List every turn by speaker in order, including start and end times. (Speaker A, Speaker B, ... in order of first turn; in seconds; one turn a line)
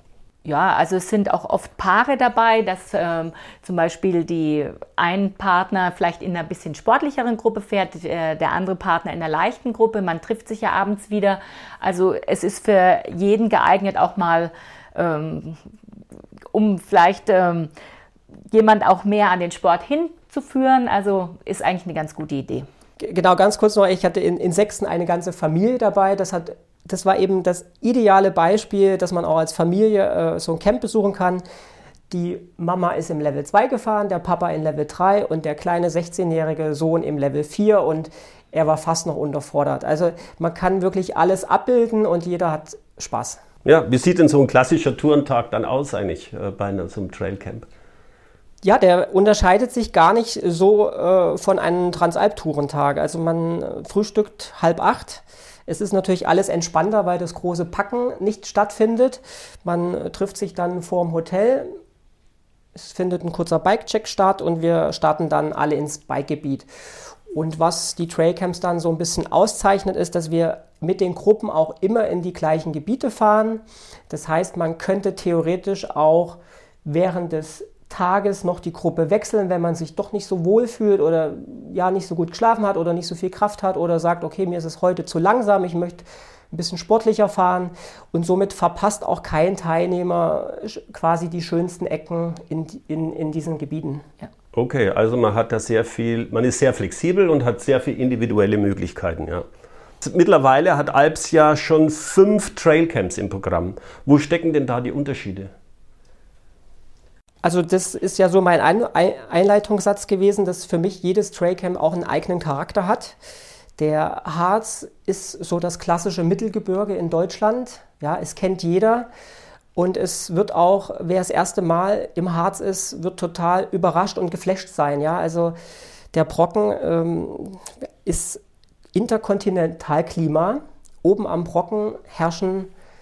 Speaker A: 0.4-15.6
Speaker A: 16.5-17.7
Speaker A: 18.5-22.6
Speaker B: 23.0-31.4
Speaker B: 32.1-43.4
Speaker C: 43.6-47.6
Speaker B: 48.6-61.7
Speaker B: 62.8-66.7
Speaker B: 67.3-94.0
Speaker C: 94.5-99.4
Speaker C: 100.0-105.5
Speaker B: 107.4-113.2
Speaker B: 113.8-119.1
Speaker B: 119.7-125.5
Speaker B: 126.1-128.4
Speaker B: 128.9-132.7